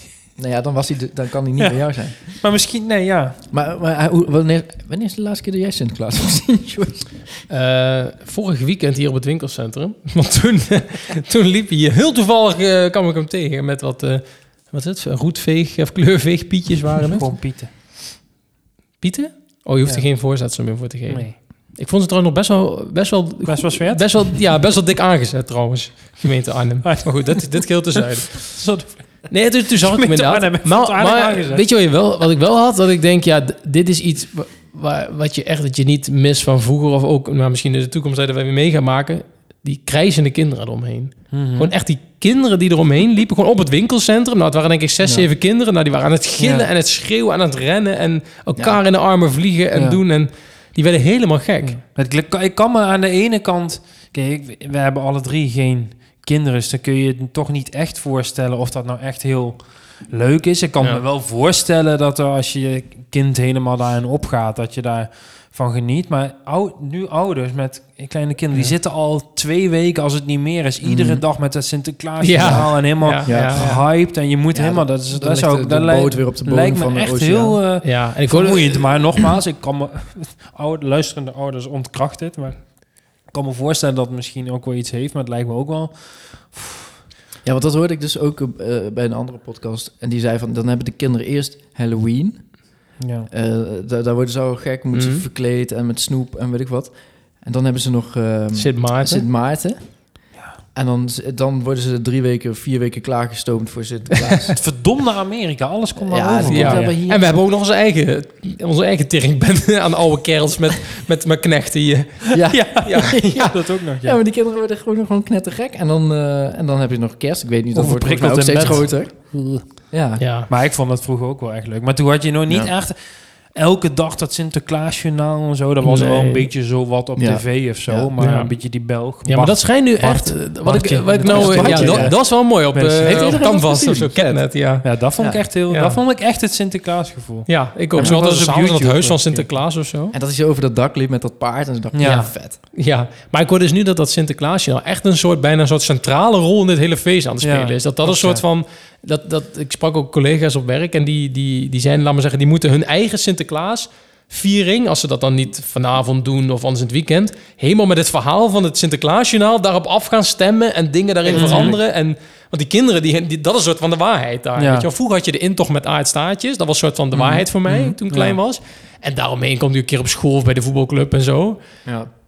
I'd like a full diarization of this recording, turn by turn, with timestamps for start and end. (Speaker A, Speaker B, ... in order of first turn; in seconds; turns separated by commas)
Speaker A: 0.4-2.4, Speaker B: 1.6-3.4, Speaker A: 3.5-7.3, Speaker C: 7.5-17.3, Speaker B: 17.1-17.7, Speaker C: 19.0-28.7, Speaker B: 21.1-21.4, Speaker B: 23.4-24.2, Speaker B: 26.8-27.6, Speaker B: 28.3-31.6, Speaker C: 29.3-51.8, Speaker B: 41.3-41.7, Speaker B: 46.4-46.7, Speaker B: 49.7-50.0, Speaker B: 51.9-86.9, Speaker A: 70.8-71.2, Speaker C: 72.2-73.8, Speaker A: 72.4-77.6, Speaker C: 77.8-79.2, Speaker A: 87.4-104.6, Speaker B: 93.0-93.3, Speaker C: 94.9-95.2, Speaker C: 98.5-99.2, Speaker B: 104.6-107.0, Speaker A: 106.0-107.3, Speaker C: 106.5-113.5, Speaker A: 112.3-120.2, Speaker B: 112.5-114.2, Speaker B: 117.7-119.9, Speaker C: 118.6-118.8, Speaker C: 120.2-120.5, Speaker B: 120.5-132.4, Speaker A: 122.5-122.7, Speaker C: 125.8-126.5, Speaker A: 127.2-128.1, Speaker C: 128.2-135.1, Speaker A: 131.2-134.5, Speaker B: 133.0-133.3, Speaker B: 134.8-139.5, Speaker C: 135.7-136.0, Speaker C: 137.5-140.1, Speaker A: 140.1-142.6, Speaker B: 141.9-142.3, Speaker C: 142.0-171.6, Speaker B: 147.4-148.4, Speaker B: 161.3-161.8, Speaker A: 161.3-161.8, Speaker B: 164.6-164.9, Speaker A: 167.1-168.0, Speaker B: 168.1-168.4